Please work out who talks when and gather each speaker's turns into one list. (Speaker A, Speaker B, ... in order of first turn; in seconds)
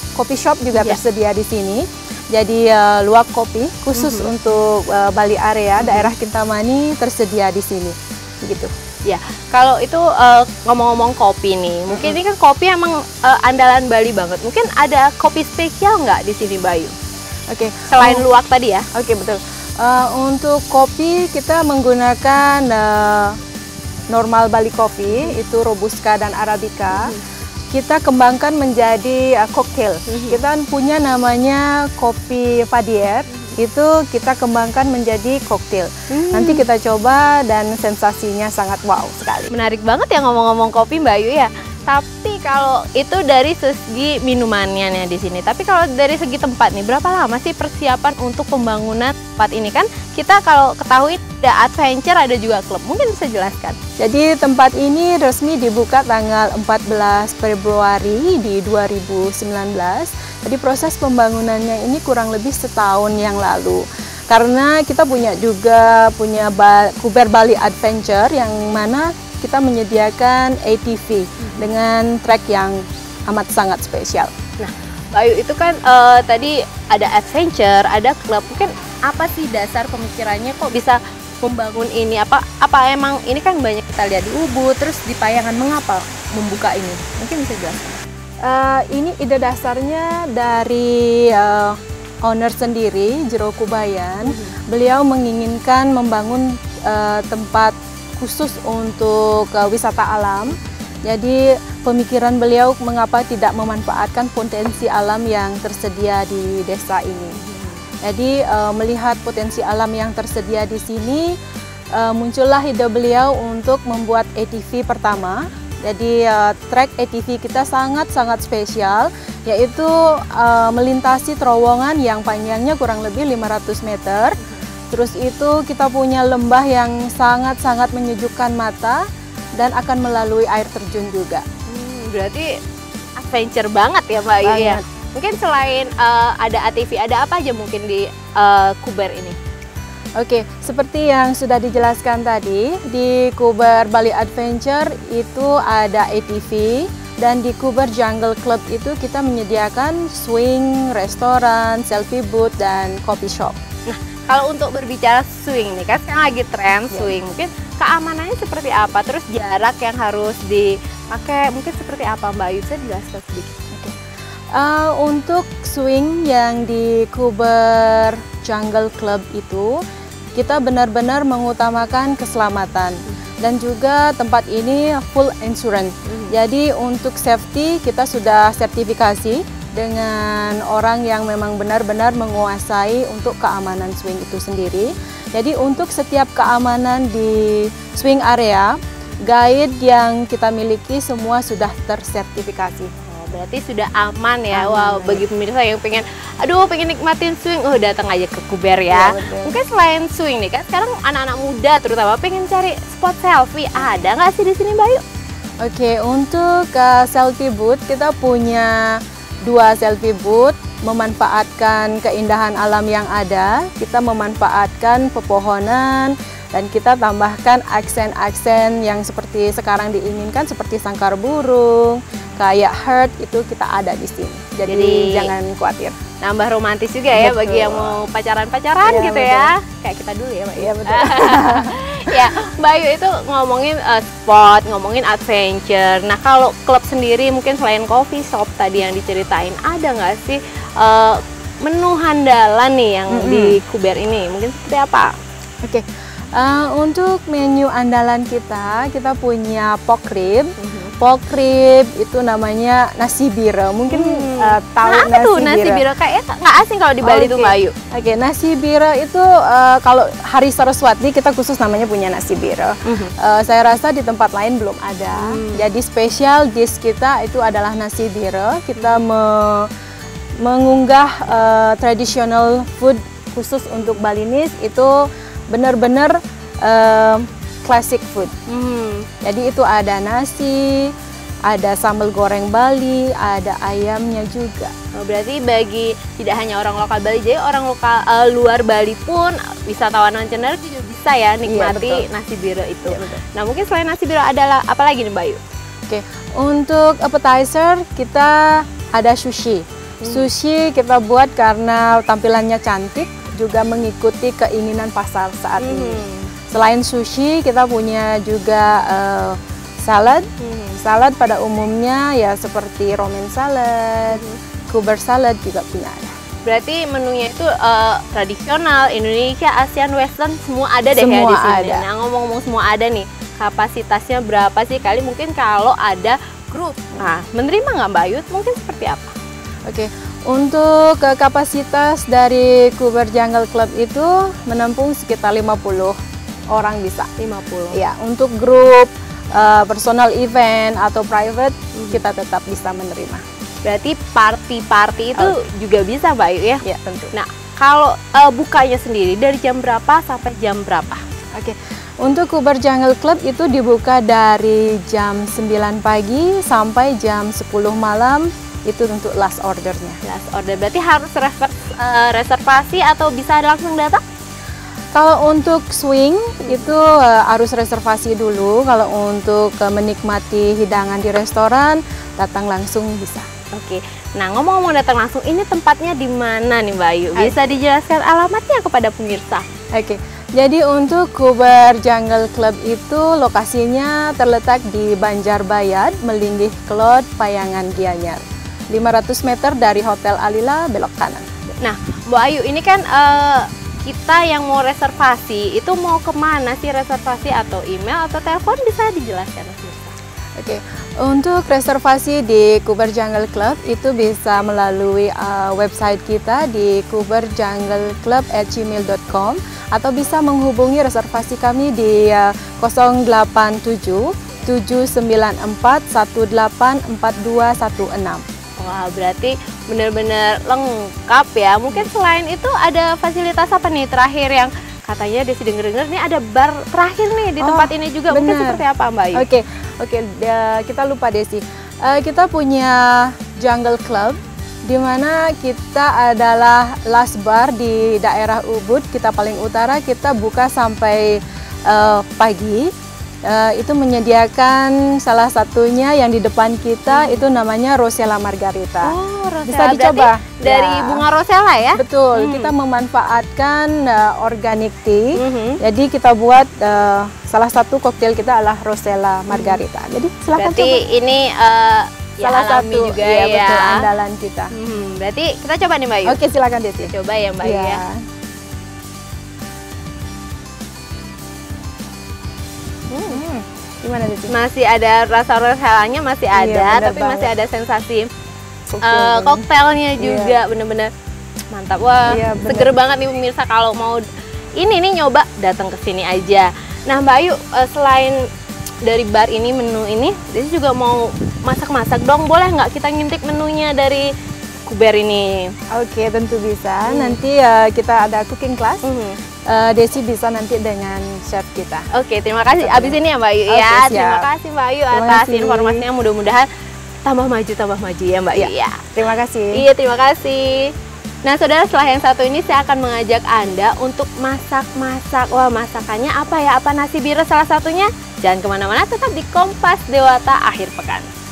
Speaker A: 0.2-8.7, 11.9-12.2, 17.5-18.3, 18.9-23.4, 24.1-27.1, 27.7-39.5, 54.0-74.3, 88.4-107.4, 108.0-111.4, 111.9-124.4, 124.9-129.0, 129.5-131.4, 134.4-134.8, 140.2-153.6, 156.9-157.2, 164.5-169.8, 170.3-192.9, 194.5-195.2, 198.9-199.6, 205.6-226.0, 227.1-228.0, 228.8-229.5, 230.6-232.2, 243.1-243.6, 245.6-255.8, 257.0-269.7, 270.4-278.3, 279.2-280.9, 281.5-284.7, 291.4-292.1, 292.9-293.2, 295.9-316.1, 320.9-321.8, 329.7-336.0, 336.5-337.1, 337.7-343.2, 346.6-347.1, 351.4-360.0, 364.9-373.2, 379.7-391.4, 400.4-418.2, 427.4-428.6, 429.1-442.7, 443.2-451.1, 451.8-460.8, 462.2-464.5, 466.0-468.0, 473.1-474.3, 476.3-477.3, 478.7-479.4, 480.0-480.4, 482.1-482.7, 495.7-498.9, 499.5-501.9, 502.5-504.3, 504.9-505.9, 508.3-509.6
Speaker B: 4.0-4.3, 5.8-6.1, 9.1-16.9, 17.9-18.9, 26.9-27.2, 30.1-30.4, 36.1-36.6, 39.5-53.8, 74.6-88.0, 94.2-94.5, 107.3-107.8, 131.7-132.5, 133.2-139.4, 153.9-163.5, 176.1-176.3, 193.1-205.0, 224.7-225.3, 226.2-245.1, 250.6-250.9, 253.9-257.7, 262.9-263.1, 265.1-265.6, 268.8-269.0, 278.5-279.1, 284.9-295.4, 300.0-300.3, 305.6-306.3, 310.4-310.8, 314.1-314.4, 316.4-329.1, 337.2-337.8, 341.8-342.0, 343.6-351.0, 360.0-364.0, 373.5-379.4, 391.6-399.9, 418.6-429.2, 446.9-447.2, 448.8-452.5, 455.1-455.6, 459.3-459.6, 460.4-463.9, 464.5-466.2, 466.8-467.8, 472.9-473.2, 474.3-478.1, 478.8-480.9, 481.5-484.0, 484.6-488.2, 488.8-494.1, 494.6-495.5, 496.9-497.2, 498.8-499.2, 501.9-506.5, 507.0-508.9, 509.5-510.7, 511.2-521.1